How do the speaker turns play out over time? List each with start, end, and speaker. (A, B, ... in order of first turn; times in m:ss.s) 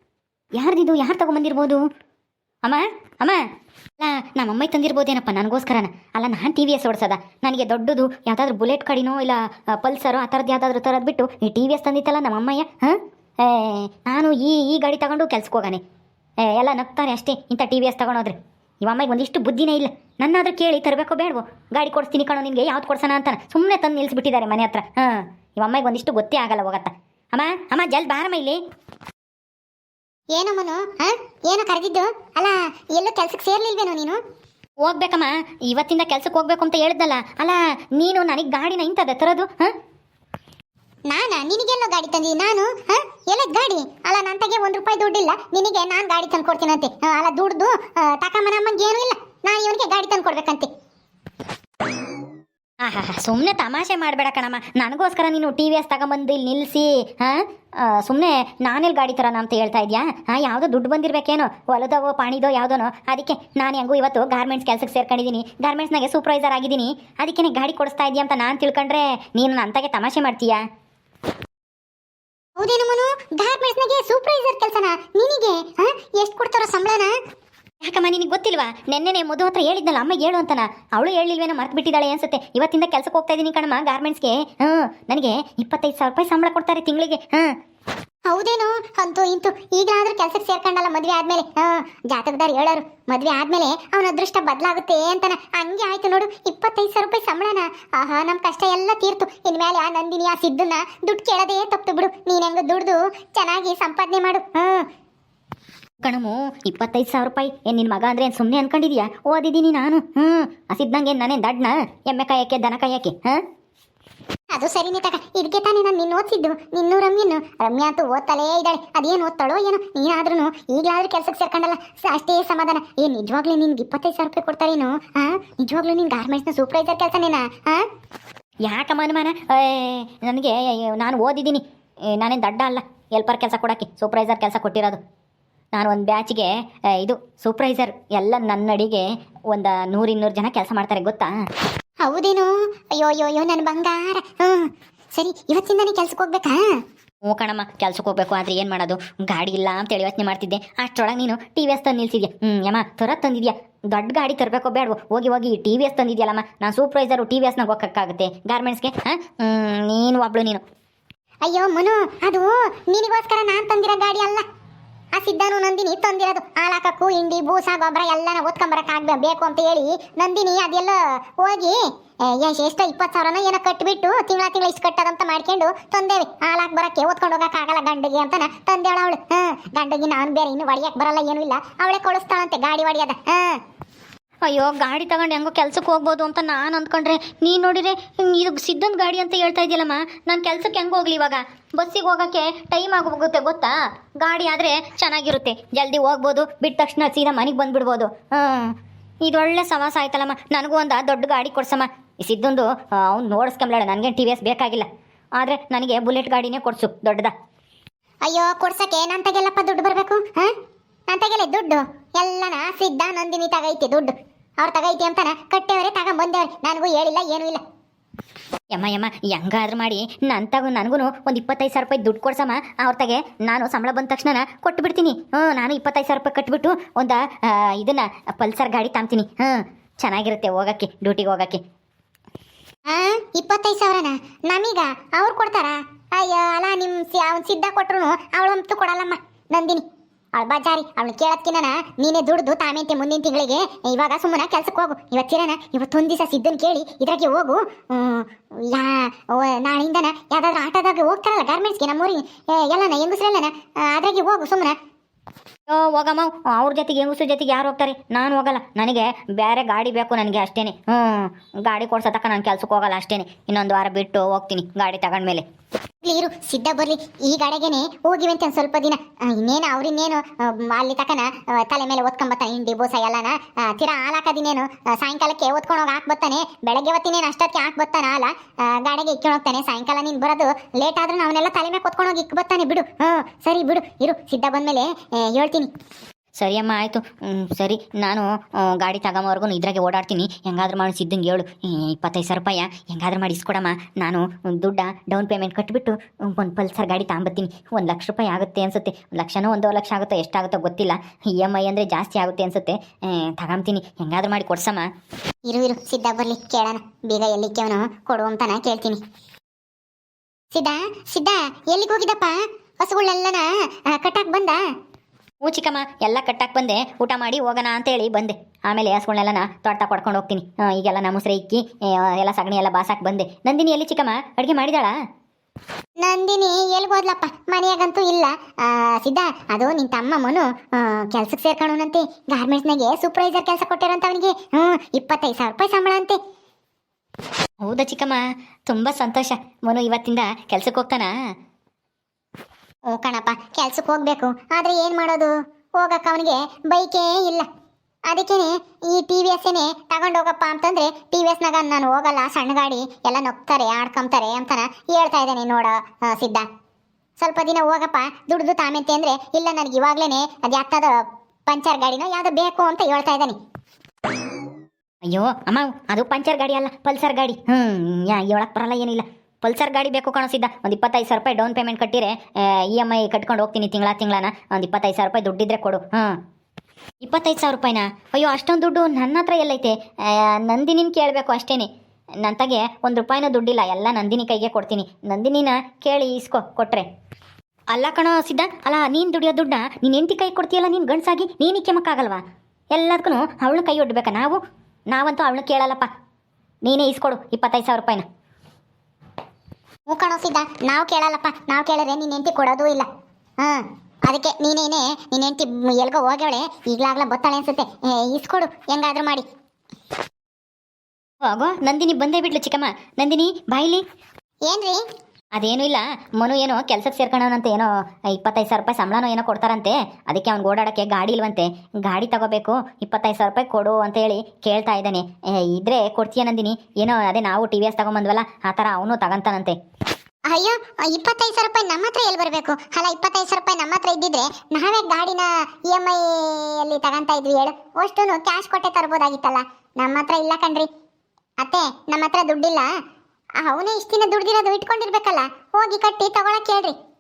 0:00.6-0:01.8 A
0:02.6-0:03.4 A
0:04.0-0:15.8 A
0:16.5-0:28.6 A
0:30.4-0:34.2 B
0:34.8-0:39.7 A
0:41.1-0:50.7 B
0:52.8-1:10.6 A
1:12.6-1:17.1 B
1:17.8-1:27.5 A
1:28.3-1:44.9 B
1:46.0-1:53.4 A
1:54.6-2:07.8 B
2:08.7-2:11.6 A
2:12.2-2:15.0 A
2:15.7-2:21.3 A
2:22.0-2:26.6 B
2:27.2-2:40.6 A
2:41.5-2:44.4 B
2:45.2-3:03.6 B
3:04.4-3:18.7 A
3:19.2-3:24.9 A
3:25.4-3:27.3 A
3:28.3-3:30.5 B
3:31.1-3:37.6 B
3:38.7-3:51.6 A
3:52.9-3:59.8 B
4:00.4-4:14.8 B
4:15.7-4:25.4 A
4:26.0-4:45.7 B
4:46.4-5:04.8 A
5:05.5-5:09.0 B
5:10.5-5:14.6 B
5:15.4-5:24.9 A
5:26.0-5:36.2 B
5:37.6-5:41.1 A
5:42.9-5:47.5 B
5:48.1-5:56.4 B
5:57.2-6:03.4 B
6:05.0-6:16.2 A
6:17.0-6:21.7 A
6:22.2-6:26.9 A
6:27.7-6:32.2 A
6:32.7-6:34.4 A
6:34.9-6:35.9 A
6:36.6-6:38.1 A
6:39.9-6:42.9 B
6:43.4-6:49.3 B
6:51.2-6:53.8 A
6:54.5-6:54.8 B
6:55.4-7:09.6 A
7:10.3-7:20.7 B
7:21.4-7:22.7 B
7:23.4-7:26.8 B